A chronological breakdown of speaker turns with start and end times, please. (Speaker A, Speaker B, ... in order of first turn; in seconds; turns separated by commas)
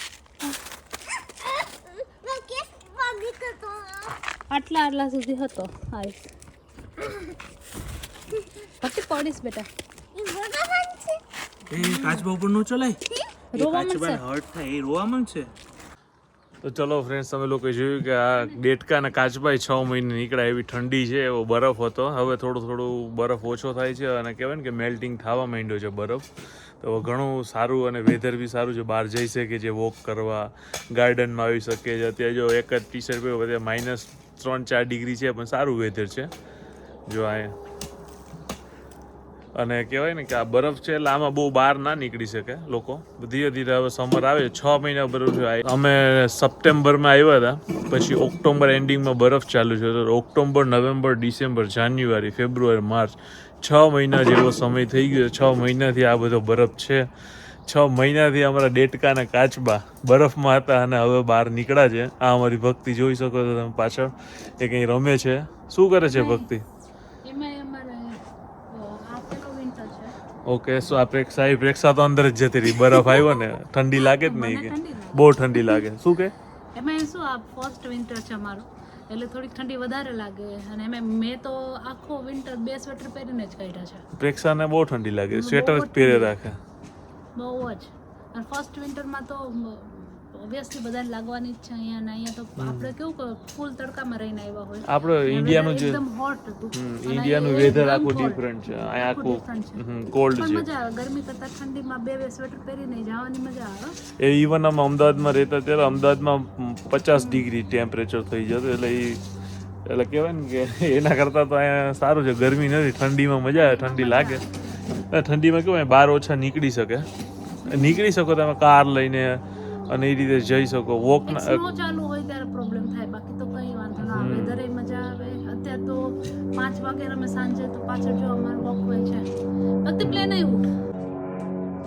Speaker A: 1.4-4.2, Speaker B: 4.5-6.3, Speaker A: 7.0-7.3, Speaker B: 8.4-9.7, Speaker A: 10.1-11.2, Speaker C: 11.7-13.0, Speaker B: 11.7-12.2, Speaker B: 13.5-14.2, Speaker C: 13.6-15.5, Speaker C: 16.6-26.3, Speaker B: 18.3-18.6, Speaker C: 26.8-36.3, Speaker C: 37.1-37.5, Speaker C: 39.5-57.1, Speaker C: 57.6-66.6, Speaker B: 66.1-66.5, Speaker B: 67.2-70.1, Speaker C: 70.5-76.3, Speaker B: 74.0-75.8, Speaker B: 76.7-84.0, Speaker C: 84.2-86.6, Speaker B: 85.3-86.3, Speaker B: 87.3-99.8, Speaker C: 92.6-92.9, Speaker C: 94.9-96.0, Speaker C: 96.7-100.7, Speaker B: 100.3-104.0, Speaker C: 104.2-109.2, Speaker B: 107.2-107.4, Speaker C: 109.8-114.4, Speaker B: 113.5-114.5, Speaker C: 115.1-117.1, Speaker B: 117.6-118.0, Speaker C: 117.6-121.6, Speaker B: 121.3-129.2, Speaker C: 124.0-124.6, Speaker B: 129.8-130.7, Speaker C: 130.0-130.3